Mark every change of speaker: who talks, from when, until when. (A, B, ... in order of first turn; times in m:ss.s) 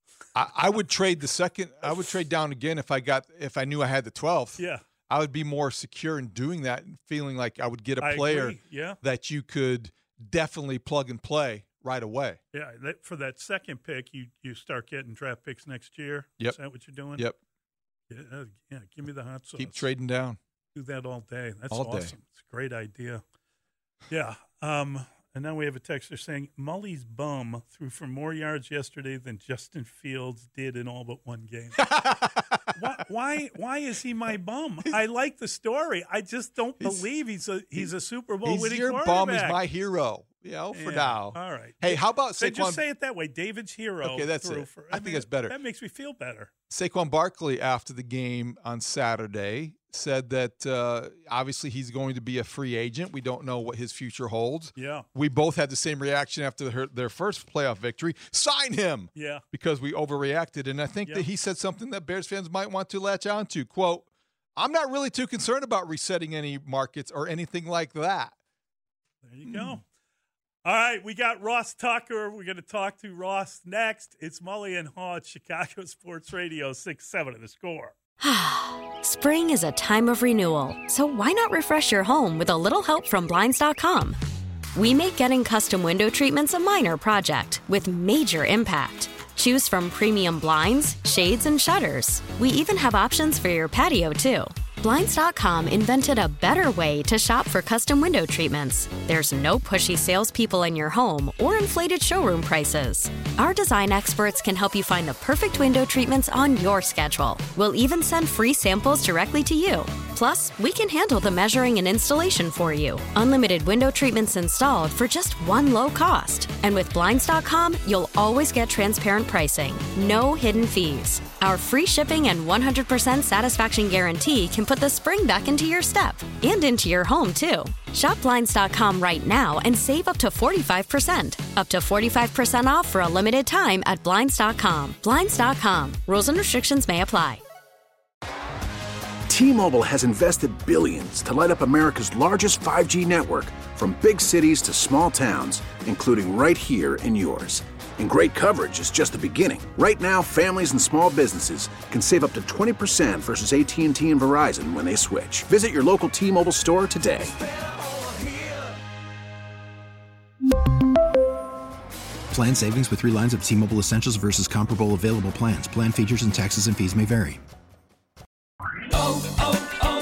0:00.4-0:12.4 A
0:04.6-0:04.8 B
0:08.0-0:09.0 B
0:12.5-0:17.3 B
0:18.1-0:19.9 B
0:19.6-0:20.4 A
0:20.8-0:23.2 B
0:21.7-0:22.1 A
0:24.1-0:31.9 B
0:31.8-0:32.8 A
0:32.7-0:39.6 B
0:36.8-0:37.1 A
0:38.4-0:42.8 A
0:40.7-0:46.5 B
0:44.0-0:45.6 A
0:46.7-1:08.4 A
0:54.8-0:55.1 B
0:59.2-0:59.4 B
1:09.2-1:09.8 B
1:09.5-1:09.8 A
1:10.6-1:17.9 B
1:18.2-1:24.2 C
1:24.8-2:17.4 C
2:19.3-2:37.4 D
2:42.3-2:47.4 E